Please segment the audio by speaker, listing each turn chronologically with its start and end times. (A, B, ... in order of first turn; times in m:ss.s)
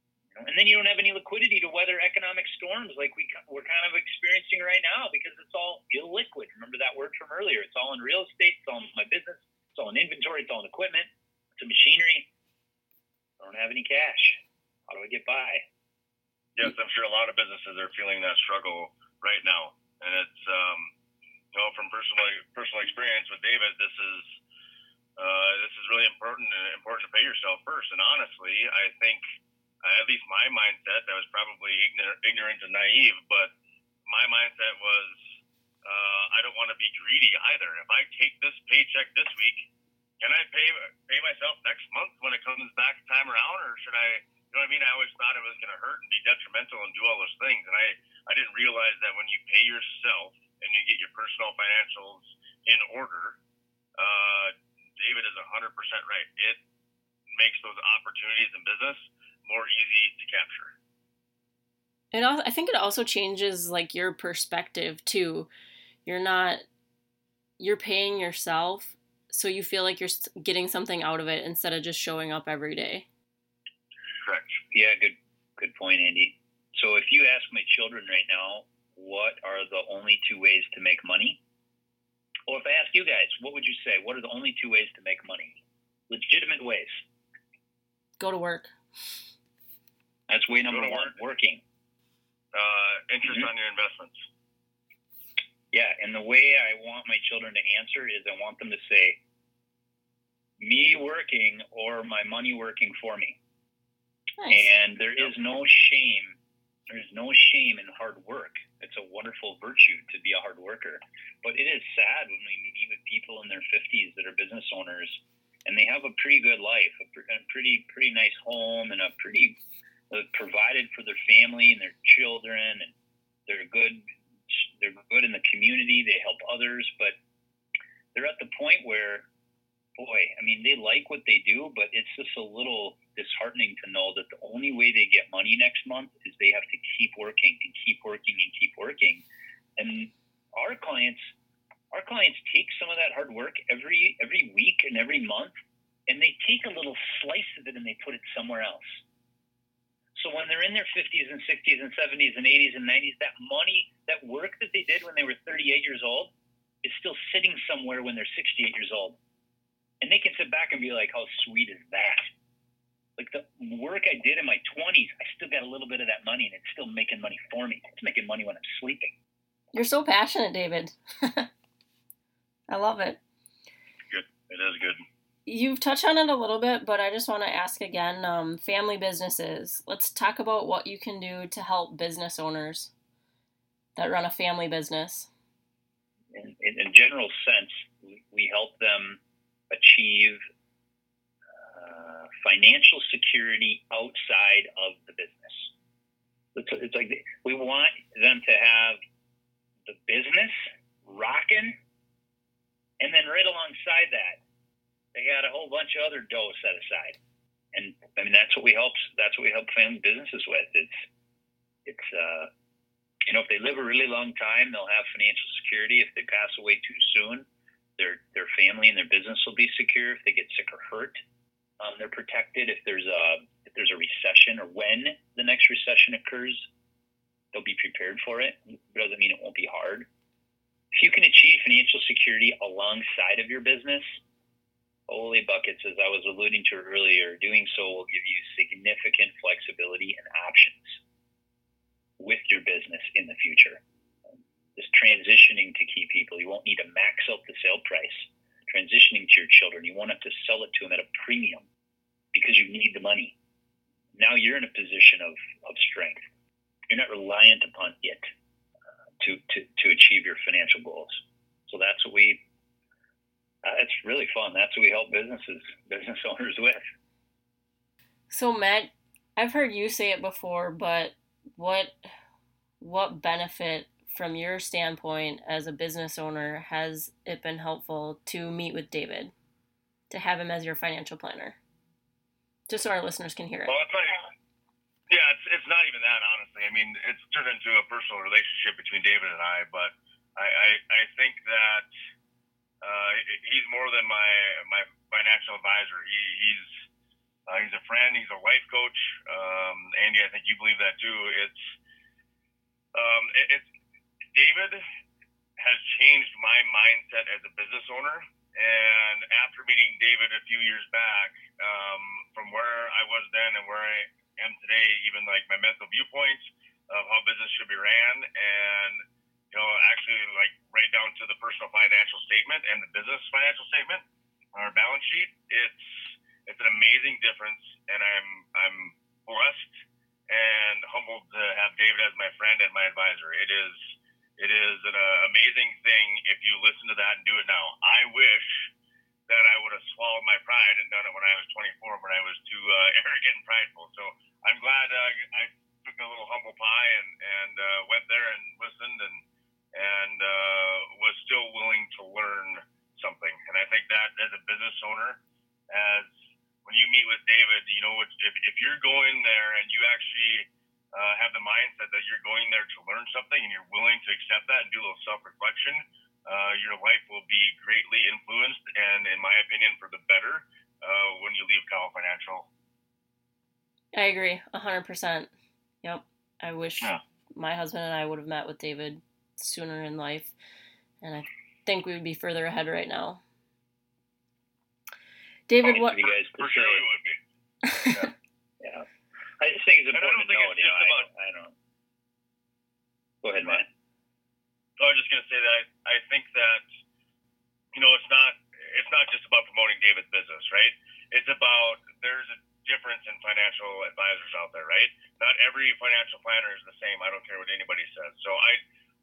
0:00.3-0:12.3 A
0:13.4-0:15.6 A
0:16.6-0:20.9 B
0:21.5-0:24.3 B
0:25.2-0:29.2 B
0:29.8-0:33.5 B
0:34.1-0:35.2 B
0:35.8-0:39.6 B
0:40.2-0:53.4 B
0:54.0-0:56.6 B
0:57.3-1:00.7 B
1:02.1-1:05.5 C
1:06.1-1:06.6 C
1:07.6-1:13.1 C
1:14.2-1:14.6 B
1:14.7-1:21.4 A
1:22.5-1:27.0 A
1:28.2-1:28.7 C
1:30.3-1:31.6 A
1:30.7-1:31.1 B
1:32.5-1:34.2 B
1:33.3-1:33.5 A
1:35.7-1:39.2 A
1:40.6-1:43.4 A
1:44.4-1:44.7 C
1:44.5-1:46.4 A
1:46.9-1:59.6 A
2:00.1-2:02.9 A
2:03.5-2:07.2 A
2:08.2-2:09.3 A
2:10.0-2:19.2 A
2:19.8-2:21.3 A
2:21.9-2:25.6 A
2:26.1-2:29.0 A
2:30.2-2:39.2 A
2:40.0-2:42.3 A
2:43.2-2:49.1 A
2:49.7-2:51.5 C
2:52.7-2:53.2 C
2:54.1-2:55.0 B
2:55.5-3:02.9 C
3:04.0-3:05.3 C
3:06.3-3:10.4 A
3:11.6-3:15.7 A
3:16.6-3:19.0 A
3:19.9-3:21.8 A
3:23.0-3:24.4 A
3:25.1-3:27.2 A
3:27.7-3:31.0 A
3:31.8-3:32.5 A
3:33.3-3:37.5 A
3:38.0-3:41.2 A
3:41.8-3:46.7 A
3:47.5-3:50.1 A
3:50.9-3:54.2 A
3:55.1-4:01.0 A
4:02.2-4:03.8 A
4:04.8-4:11.7 A
4:12.3-4:13.4 A
4:14.2-4:16.2 A
4:16.9-4:18.3 A
4:19.2-4:22.4 A
4:23.6-4:26.8 A
4:28.3-4:32.0 C
4:32.8-4:39.3 C
4:40.1-4:41.6 C
4:42.7-4:43.7 C
4:43.7-4:44.2 B
4:45.1-4:51.9 B
4:52.8-4:56.8 B
4:57.5-5:01.8 B
5:02.9-5:03.7 B
5:04.3-5:04.8 B
5:05.6-5:24.0 B
5:24.5-5:29.7 B
5:30.3-5:38.7 B
5:39.3-5:49.2 B
5:49.7-5:56.1 B
5:56.6-6:12.5 B
6:13.9-6:15.3 C
6:15.8-6:20.3 C
6:21.0-6:23.2 C
6:25.5-6:26.0 C
6:25.6-6:26.8 A
6:26.4-6:27.2 B
6:27.7-6:27.9 C
6:27.7-6:28.1 B
6:28.6-6:28.9 A
6:29.4-6:31.6 A
6:29.9-6:31.1 B
6:33.2-6:33.7 A
6:34.8-6:36.6 B
6:37.7-6:48.6 B